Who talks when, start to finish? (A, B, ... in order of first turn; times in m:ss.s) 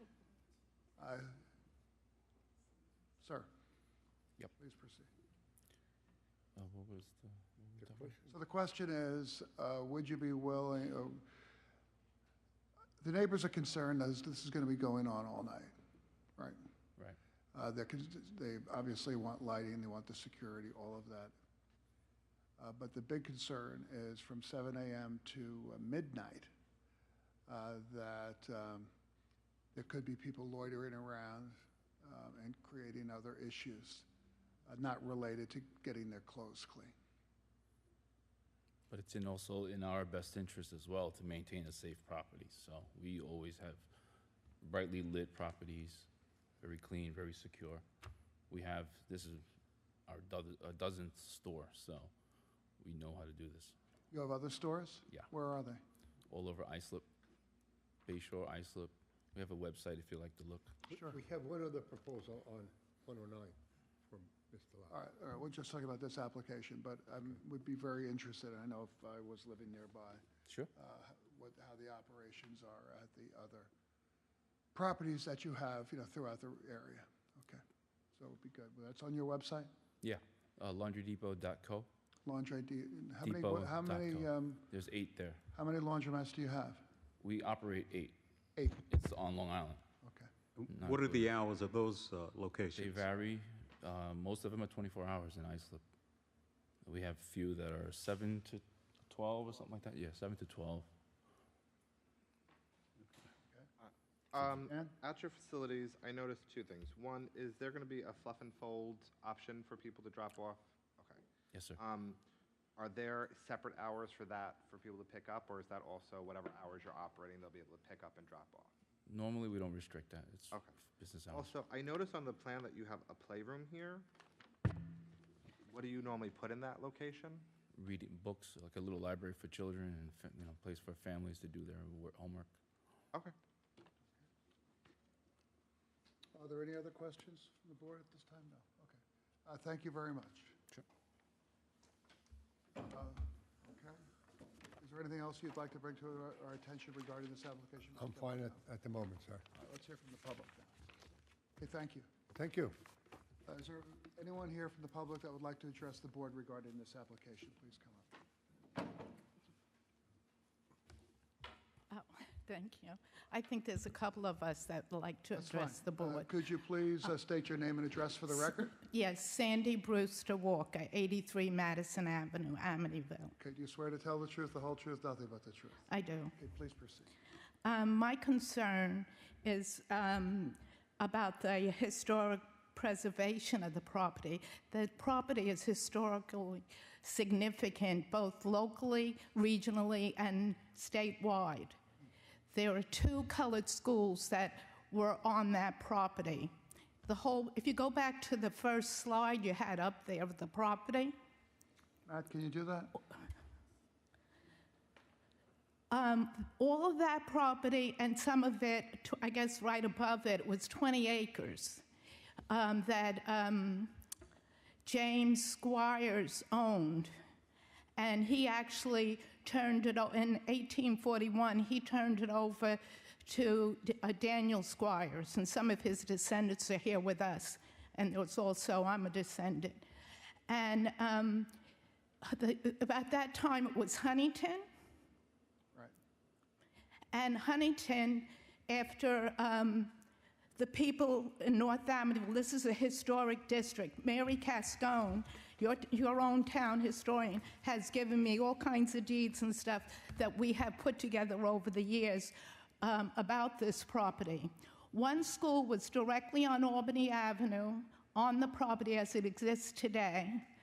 0:01.0-0:01.3 A
0:03.2-0:03.5 A
0:04.5-0:05.1 A
0:06.6-0:08.2 B
0:07.8-0:08.2 C
0:08.3-0:11.2 A
0:13.0-0:15.7 A
0:17.5-0:21.3 A
0:22.6-0:26.5 A
0:27.5-0:28.9 A
0:29.7-0:34.0 A
0:34.7-0:36.9 A
0:38.9-0:43.9 B
0:44.6-0:46.1 B
0:46.6-0:47.8 B
0:48.5-0:49.4 B
0:50.1-0:52.1 B
0:52.8-0:53.7 B
0:54.1-0:55.8 A
0:56.3-0:57.0 B
0:58.1-1:00.8 B
1:00.9-1:05.0 C
1:04.9-1:10.2 A
1:10.7-1:13.7 A
1:14.7-1:17.6 A
1:18.1-1:19.7 A
1:20.0-1:21.9 B
1:22.2-1:24.7 A
1:23.2-1:25.4 B
1:25.5-1:26.8 A
1:27.2-1:28.2 B
1:28.6-1:28.8 A
1:28.8-1:29.8 B
1:30.0-1:30.3 A
1:30.6-1:33.0 D
1:30.7-1:31.3 B
1:32.7-1:35.8 B
1:36.8-1:40.9 B
1:43.8-1:51.2 E
1:44.6-1:44.9 A
1:51.5-1:51.8 B
1:51.8-1:52.2 E
1:52.8-1:58.7 E
1:59.0-2:01.5 B
2:01.3-2:04.0 E
2:05.7-2:07.4 E
2:07.7-2:12.5 B
2:16.3-2:20.6 A
2:22.8-2:24.0 A
2:24.8-2:28.6 A
2:28.0-2:29.4 C
2:29.5-2:30.8 A
2:31.6-2:32.1 A
2:32.3-2:32.8 C
2:33.4-2:38.1 A
2:41.9-2:46.3 F
2:45.3-2:48.8 A
2:48.8-2:53.3 F
2:53.4-2:55.8 A
2:55.9-2:56.3 F
2:56.4-2:57.1 A
2:57.6-3:11.8 F
3:12.5-3:16.5 F
3:17.0-3:21.1 F
3:22.0-3:23.0 A
3:25.9-3:31.8 F
3:32.5-3:33.9 F
3:34.8-3:37.1 F
3:38.0-3:49.8 F
3:50.5-3:51.5 F
3:52.2-3:54.6 F
3:57.1-3:59.9 F
4:00.6-4:20.4 F